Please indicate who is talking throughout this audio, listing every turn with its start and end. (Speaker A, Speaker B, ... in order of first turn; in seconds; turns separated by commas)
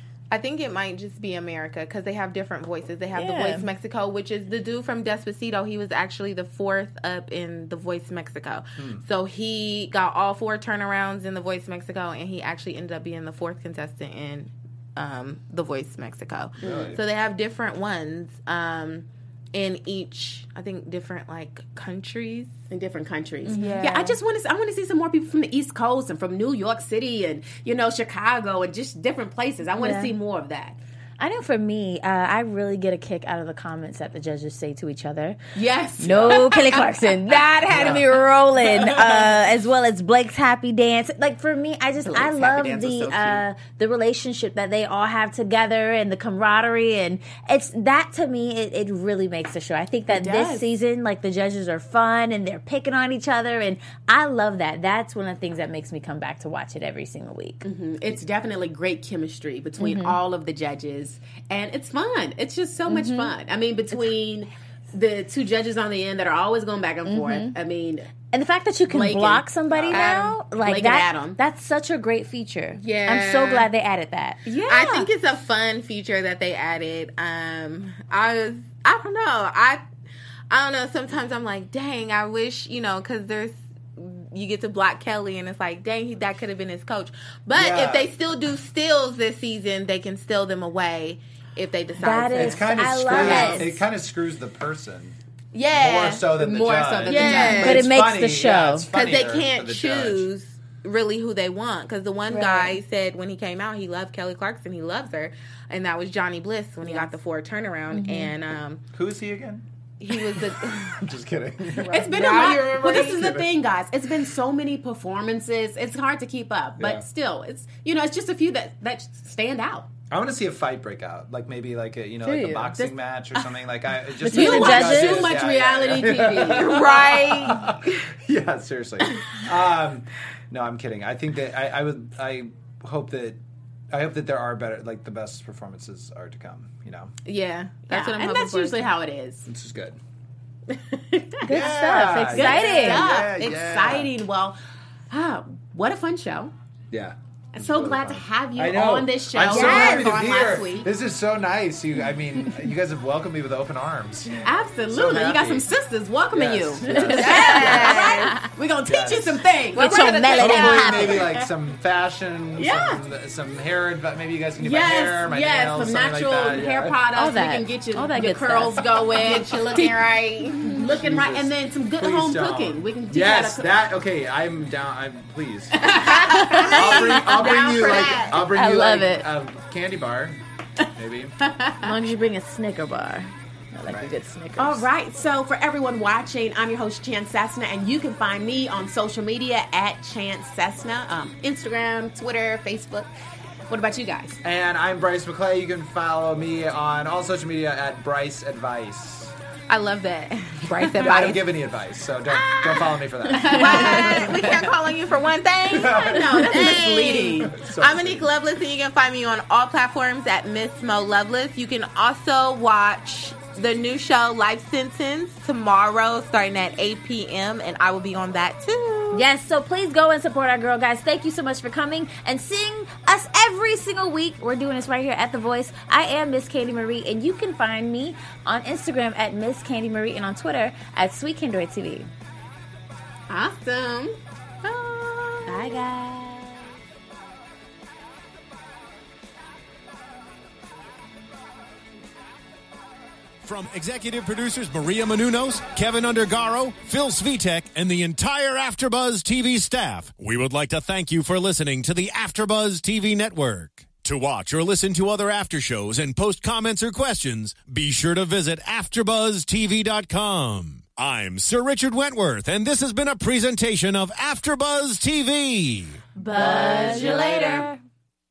Speaker A: 0.3-22.6, Speaker B: 3.1-3.7, Speaker C: 8.8-9.0, Speaker C: 16.6-17.0, Speaker D: 16.6-16.9, Speaker D: 22.7-30.8, Speaker B: 23.4-24.2, Speaker B: 29.8-30.1, Speaker B: 31.2-35.4, Speaker D: 35.5-39.4, Speaker B: 36.0-57.6, Speaker C: 36.0-36.4, Speaker C: 37.7-38.0, Speaker D: 42.0-43.4, Speaker D: 50.1-50.7, Speaker D: 57.6-68.1, Speaker B: 59.8-60.2, Speaker B: 62.9-63.3, Speaker B: 67.0-67.5, Speaker B: 68.3-74.4, Speaker D: 68.9-70.0, Speaker C: 69.7-70.0, Speaker A: 69.9-70.4, Speaker D: 70.5-71.4, Speaker A: 72.7-73.7, Speaker D: 74.5-75.1, Speaker A: 74.7-79.8, Speaker A: 80.5-93.7, Speaker C: 87.5-88.1, Speaker B: 92.0-93.8, Speaker C: 92.3-95.2, Speaker D: 93.1-93.7, Speaker A: 95.5-96.3, Speaker C: 95.7-100.3, Speaker D: 96.3-97.9, Speaker A: 97.0-97.8, Speaker B: 97.1-98.9, Speaker A: 98.9-108.8, Speaker B: 102.3-102.8, Speaker D: 106.8-107.1, Speaker B: 107.9-108.3, Speaker C: 108.9-113.5, Speaker A: 110.0-111.0, Speaker A: 111.8-113.2, Speaker D: 111.8-119.9, Speaker C: 116.8-117.0, Speaker C: 120.1-133.4, Speaker B: 122.2-122.9, Speaker D: 124.2-127.1, Speaker B: 124.2-125.3, Speaker A: 126.4-127.9, Speaker C: 133.9-137.1, Speaker A: 137.2-138.8, Speaker D: 137.9-139.5, Speaker C: 139.4-140.0, Speaker B: 141.4-143.1, Speaker C: 141.5-144.1, Speaker D: 142.2-144.6, Speaker A: 142.7-143.6, Speaker D: 145.1-146.5, Speaker C: 146.9-155.7, Speaker D: 147.5-150.8, Speaker B: 149.5-150.1, Speaker A: 149.5-150.6, Speaker D: 154.4-161.5, Speaker C: 156.3-157.8, Speaker B: 156.9-158.4, Speaker A: 157.1-158.4, Speaker C: 158.8-159.4, Speaker B: 159.7-161.2, Speaker A: 159.8-161.0, Speaker C: 160.3-167.0, Speaker D: 162.6-163.0, Speaker D: 164.6-173.7, Speaker B: 167.1-169.0, Speaker A: 169.1-170.8, Speaker C: 170.8-176.0, Speaker D: 175.8-178.1, Speaker A: 175.8-178.4, Speaker B: 176.3-176.6, Speaker C: 176.6-181.3, Speaker B: 178.5-179.3, Speaker D: 181.4-181.9, Speaker B: 181.8-184.9, Speaker D: 184.6-193.1, Speaker D: 193.7-194.4, Speaker C: 194.4-199.3, Speaker A: 199.7-201.4, Speaker C: 201.0-204.1, Speaker A: 202.3-219.2, Speaker D: 203.3-204.4, Speaker C: 205.7-206.5, Speaker D: 205.9-207.6, Speaker C: 207.4-208.3, Speaker B: 219.1-232.1, Speaker D: 233.3-235.4, Speaker A: 234.9-235.2, Speaker B: 235.5-236.7, Speaker E: 243.4-266.0, Speaker B: 266.1-267.7, Speaker A: 266.2-267.7